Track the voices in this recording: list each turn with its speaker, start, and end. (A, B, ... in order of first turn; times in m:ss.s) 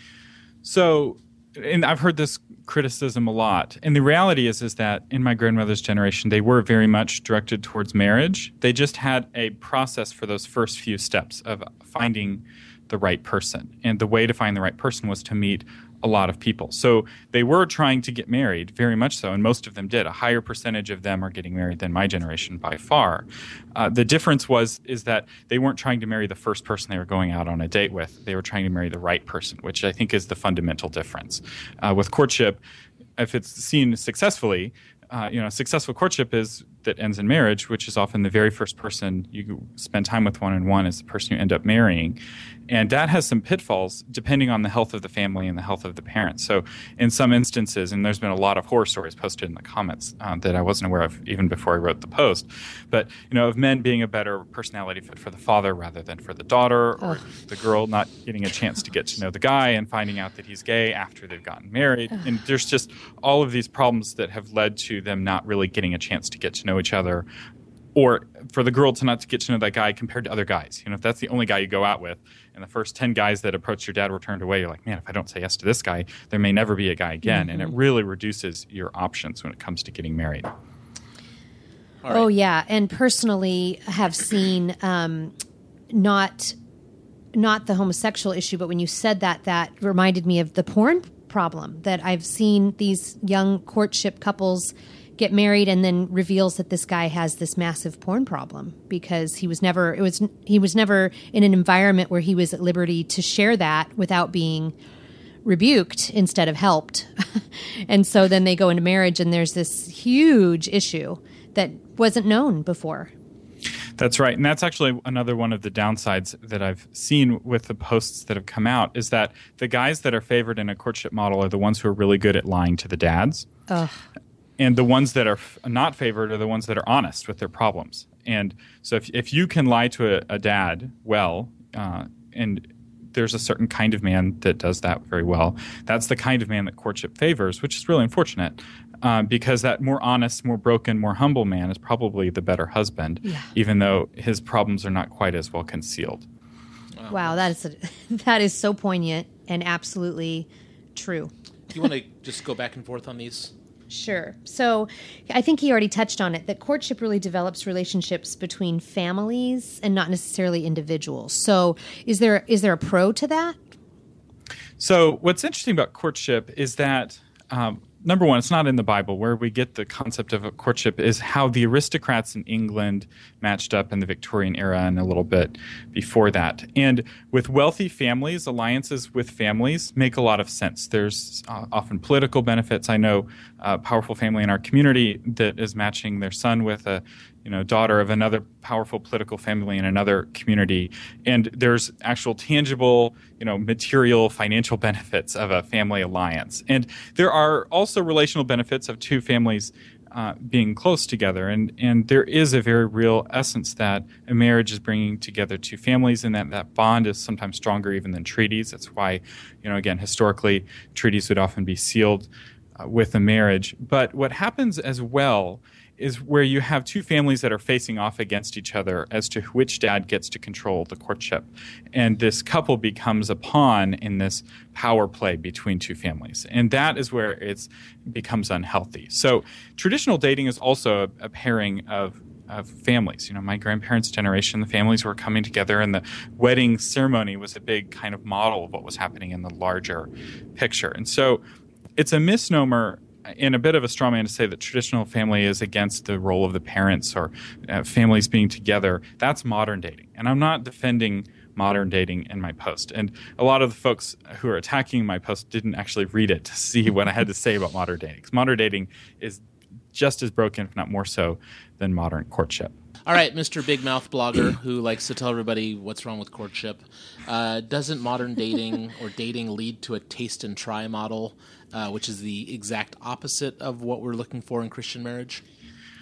0:00.6-0:32.6 A
0:33.2-0:42.2 A
0:42.7-1:07.2 A
1:08.0-1:20.5 A
1:17.2-1:17.7 B
1:22.0-1:22.3 C
1:22.1-1:25.3 B
1:25.9-1:26.6 B
1:27.3-1:44.8 B
1:45.4-1:53.1 B
1:54.0-2:03.5 A
2:03.7-2:04.0 B
2:04.6-2:26.3 A
2:23.2-2:23.5 B
2:27.0-2:27.5 C
2:27.1-2:31.3 B
2:31.7-2:33.5 C
2:33.9-2:43.6 B
2:44.8-3:32.3 A
3:32.8-4:01.4 A
4:02.0-4:19.4 A
4:19.9-4:22.7 A
4:23.1-4:35.4 C